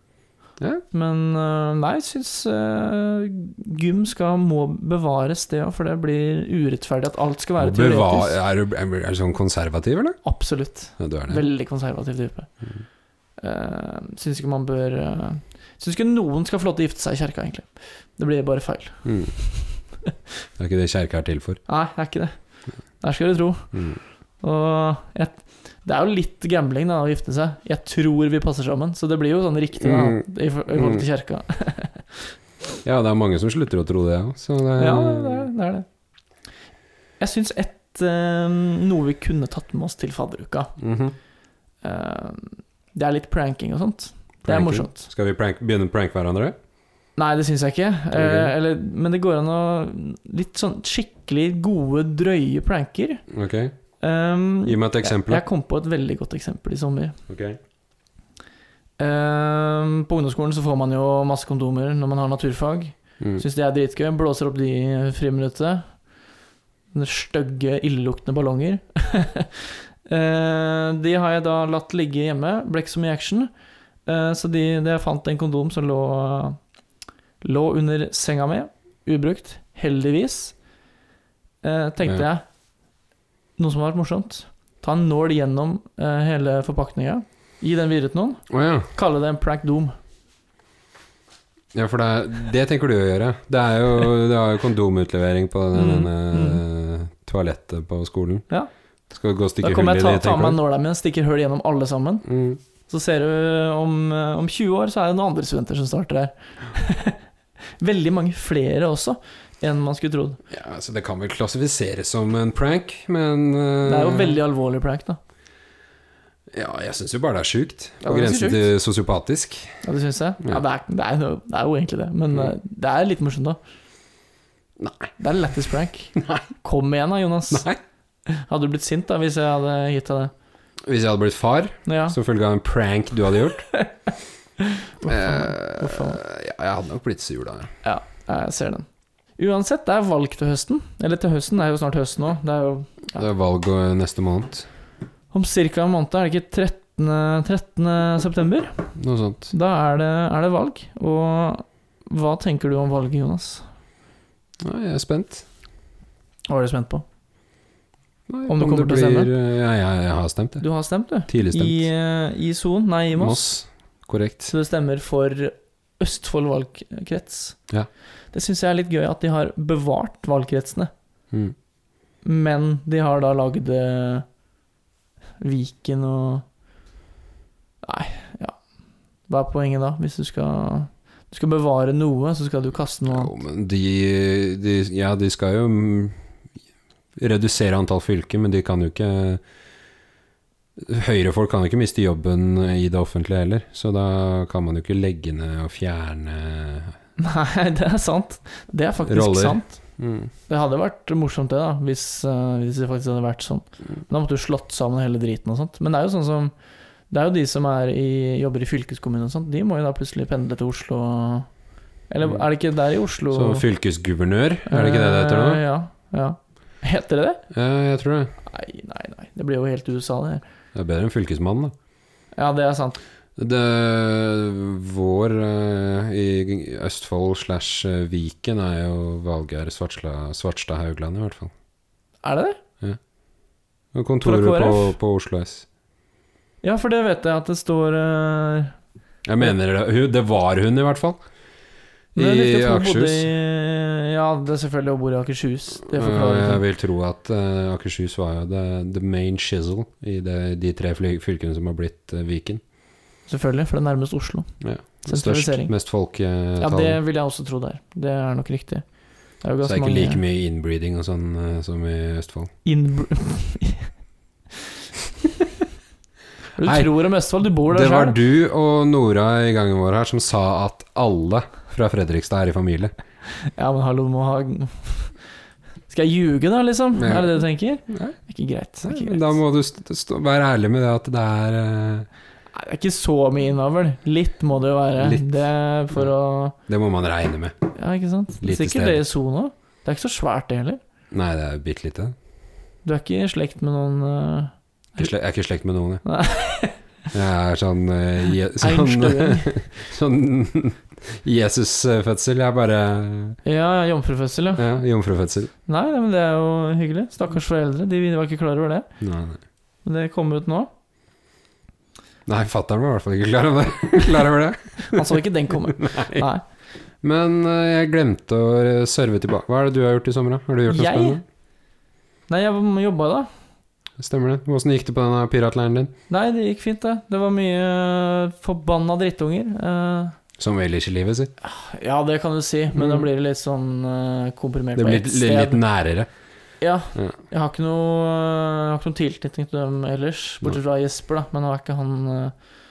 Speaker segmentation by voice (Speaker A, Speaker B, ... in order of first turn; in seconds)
Speaker A: 0.9-8.3, 10.2-12.5, 13.4-20.1, 21.7-22.3, 23.0-23.8, 24.4-32.3, 34.8-35.9, 37.2-40.7, 41.8-45.0, 47.2-53.2, 54.0-57.2, 59.0-65.9, 66.9-73.5, 74.1-76.6, 77.4-80.6, 81.6-82.5, 83.6-90.0, 95.7-96.6, 99.6-102.3, 102.9-107.2, 107.8-110.4, 113.8-115.2, 118.0-118.7, 119.8-123.6, 125.2-127.7, 128.3-130.3, 131.9-132.2, 133.7-136.2, 137.8-138.9, 139.4-143.2, 145.3-148.9, 149.5-153.7, 156.5-157.1, 158.5-159.3, 160.6-163.5, 164.5-167.6, 168.3-170.9, 172.2-174.3, 175.4-176.4, 177.8-178.6, 179.3-183.3, 197.2-199.8, 200.5-206.5, 207.1-211.5, 212.1-213.6, 214.7-217.4, 218.5-220.4, 222.4-223.0, 232.2-232.6, 234.2-235.0, 236.6-238.8, 242.2-246.6, 253.3-254.5, 255.0-255.7, 256.6-258.9, 259.4-260.2, 262.6-263.9, 266.6-268.2, 273.3-275.1, 275.9-279.4, 282.5-286.6, 287.8-290.8, 292.8-295.1, 296.0-296.8, 298.6-299.5, 303.4-304.6, 305.7-308.9, 309.9-310.7, 314.9-316.4, 320.7-321.2, 322.3-323.3, 326.1-330.2, 331.4-335.6, 336.6-342.3
Speaker B: 7.6-10.2, 11.0-11.4, 19.1-19.3, 20.6-21.6, 23.7-24.0, 29.8-31.1, 32.8-35.5, 40.8-41.2, 44.4-46.6, 48.1-48.5, 53.3-53.8, 54.7-55.4, 57.3-57.6, 88.5-88.9, 91.7-98.5, 99.1-100.6, 102.2-102.6, 110.5-114.4, 116.5-119.8, 124.8-125.1, 126.2-126.5, 127.5-127.8, 130.9-133.7, 135.0-137.7, 143.2-144.7, 149.0-149.5, 154.6-155.5, 158.3-160.6, 161.3-161.9, 163.2-164.5, 183.1-186.2, 187.2-189.4, 190.8-196.9, 199.1-200.3, 213.3-215.6, 217.5-218.3, 220.7-221.7, 223.4-231.5, 233.9-235.7, 239.3-241.2, 242.2-243.3, 245.9-252.6, 254.6-257.0, 259.6-262.5, 266.6-267.0, 267.6-272.9, 277.0-278.2, 278.8-282.1, 285.0-285.3, 286.7-287.6, 288.4-289.0, 291.1-292.1, 295.0-296.0, 297.1-303.4, 304.6-305.5, 309.0-309.4, 312.3-316.2, 317.0-321.2, 324.0-325.9, 330.4-331.3, 332.7-333.1, 334.8-336.1